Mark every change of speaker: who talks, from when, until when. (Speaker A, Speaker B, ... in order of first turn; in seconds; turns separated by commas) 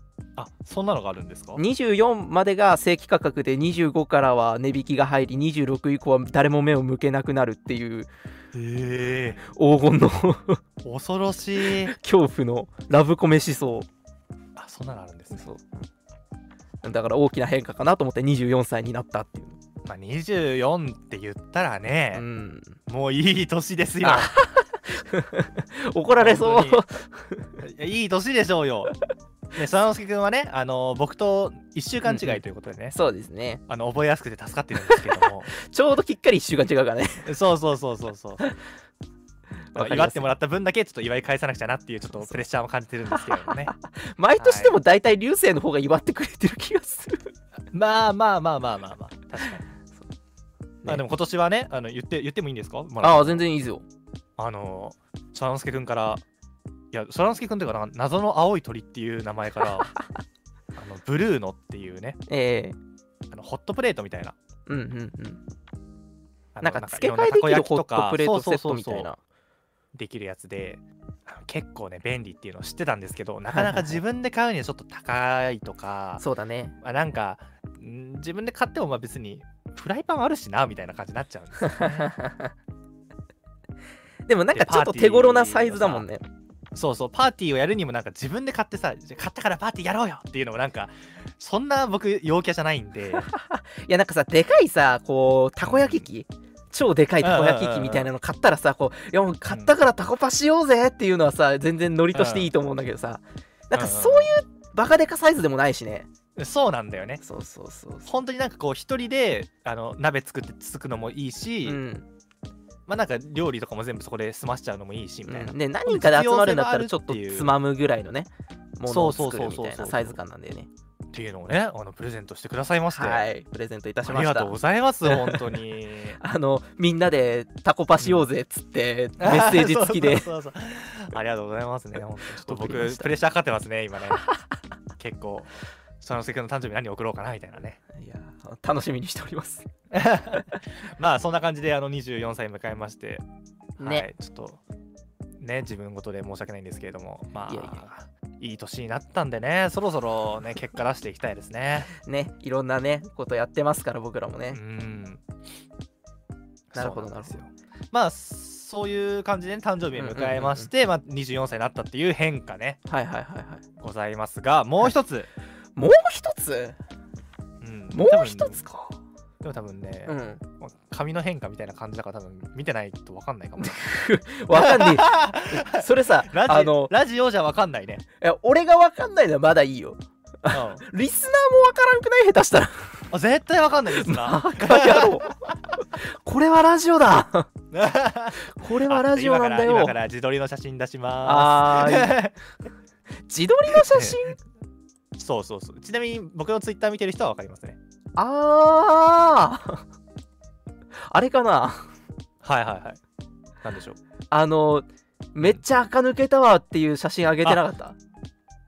Speaker A: 0.4-1.6, Speaker B: 1.6-8.1, Speaker A: 8.5-9.5, Speaker B: 9.5-10.6, Speaker A: 10.8-11.9, Speaker B: 11.7-13.9, Speaker A: 14.6-15.5, Speaker B: 15.3-15.9, Speaker B: 16.8-19.6, Speaker A: 19.9-22.2, Speaker B: 22.1-22.8, Speaker A: 22.9-24.3, Speaker B: 24.0-27.6, Speaker A: 26.2-26.8, Speaker A: 27.6-28.9, Speaker A: 29.5-33.0, Speaker B: 32.1-32.4, Speaker B: 32.9-33.6, Speaker A: 33.7-35.5, Speaker B: 34.9-37.3, Speaker A: 37.3-38.5, Speaker B: 39.7-40.3, Speaker A: 39.8-43.7, Speaker B: 43.1-47.3, Speaker A: 44.4-44.8, Speaker A: 47.7-49.7, Speaker A: 50.9-53.5, Speaker B: 53.0-53.8, Speaker A: 54.4-56.2, Speaker A: 56.9-59.9, Speaker A: 60.8-62.2, Speaker B: 62.3-62.8, Speaker A: 63.3-64.4, Speaker B: 64.7-65.4, Speaker A: 66.5-69.1, Speaker B: 66.6-69.2, Speaker A: 69.9-76.2, Speaker B: 73.5-74.0, Speaker B: 76.2-76.8, Speaker A: 76.8-82.2, Speaker B: 81.6-82.5, Speaker B: 84.3-86.2, Speaker A: 84.5-86.0, Speaker A: 86.7-93.3, Speaker B: 93.1-106.1, Speaker A: 95.7-96.1, Speaker A: 97.2-98.1, Speaker A: 102.1-102.5, Speaker A: 103.7-104.3, Speaker A: 106.4-107.2, Speaker B: 107.2-108.1, Speaker A: 108.1-111.8, Speaker B: 111.7-112.1, Speaker A: 112.9-117.5, Speaker B: 115.3-120.7, Speaker A: 118.9-120.2, Speaker A: 121.1-123.3, Speaker B: 122.9-125.6, Speaker A: 124.1-126.2, Speaker B: 126.2-130.3, Speaker A: 128.0-128.3, Speaker A: 129.2-134.3, Speaker B: 132.3-133.1, Speaker A: 135.0-137.8, Speaker B: 137.9-139.7, Speaker A: 139.9-143.2, Speaker B: 143.8-144.1, Speaker A: 143.8-144.6, Speaker A: 145.4-151.9, Speaker B: 147.5-147.8, Speaker B: 151.9-154.6, Speaker A: 154.5-155.2, Speaker A: 156.7-162.8, Speaker B: 156.8-157.4, Speaker B: 160.0-160.7, Speaker B: 162.9-163.6, Speaker A: 163.8-165.3, Speaker B: 165.8-166.8, Speaker A: 167.6-168.6, Speaker B: 167.9-169.0, Speaker A: 169.4-173.8, Speaker B: 170.1-170.4, Speaker B: 173.6-176.9, Speaker A: 174.5-178.1, Speaker B: 178.2-183.1, Speaker A: 180.5-180.8, Speaker A: 183.1-185.5, Speaker B: 183.9-187.5, Speaker A: 187.7-192.3, Speaker B: 188.4-190.0, Speaker B: 191.2-192.2, Speaker B: 193.3-194.4, Speaker A: 193.7-194.2, Speaker A: 195.2-197.8, Speaker B: 198.2-199.8, Speaker B: 201.1-201.9, Speaker A: 202.4-203.0, Speaker A: 203.6-204.0, Speaker B: 204.3-208.0